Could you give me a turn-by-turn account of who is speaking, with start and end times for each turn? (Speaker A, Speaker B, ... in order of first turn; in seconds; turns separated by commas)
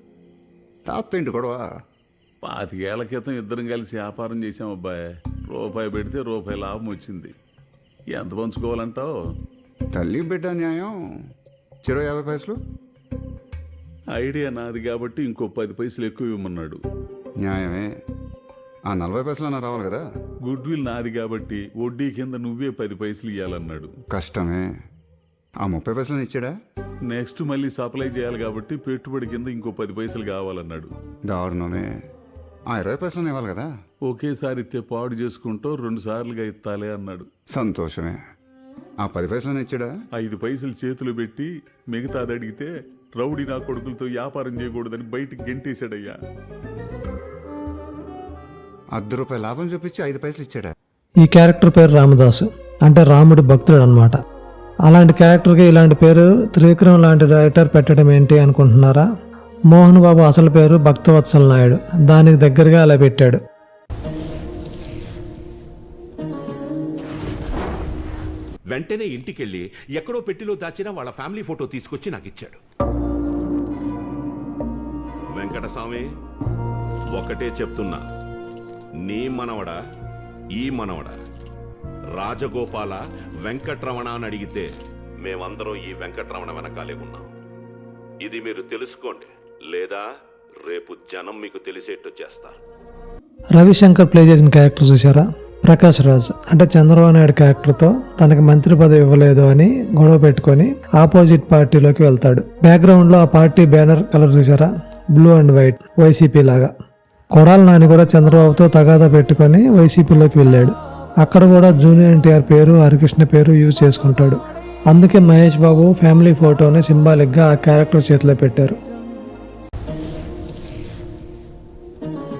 Speaker A: 0.9-1.6, Speaker B: 2.4-7.3, Speaker B: 8.1-9.1, Speaker A: 9.9-10.9, Speaker A: 11.9-12.5, Speaker C: 12.1-12.4, Speaker B: 14.1-16.8, Speaker A: 17.4-17.8, Speaker A: 18.9-20.0, Speaker B: 20.4-23.9, Speaker A: 24.1-24.6, Speaker A: 25.6-26.5, Speaker B: 27.1-30.9, Speaker A: 31.3-31.8, Speaker A: 32.7-33.6, Speaker B: 34.0-37.3, Speaker A: 37.5-38.1, Speaker A: 39.0-39.9, Speaker B: 40.1-46.1, Speaker A: 49.0-50.7, Speaker D: 51.2-54.2, Speaker D: 54.9-59.1, Speaker D: 59.7-63.4, Speaker C: 68.7-72.6, Speaker C: 75.3-76.1, Speaker C: 77.1-78.0, Speaker C: 79.0-79.8, Speaker C: 80.5-81.2, Speaker C: 82.1-87.3, Speaker C: 88.2-90.1, Speaker C: 90.6-92.6, Speaker D: 93.6-106.7, Speaker D: 107.3-114.4, Speaker D: 114.9-118.8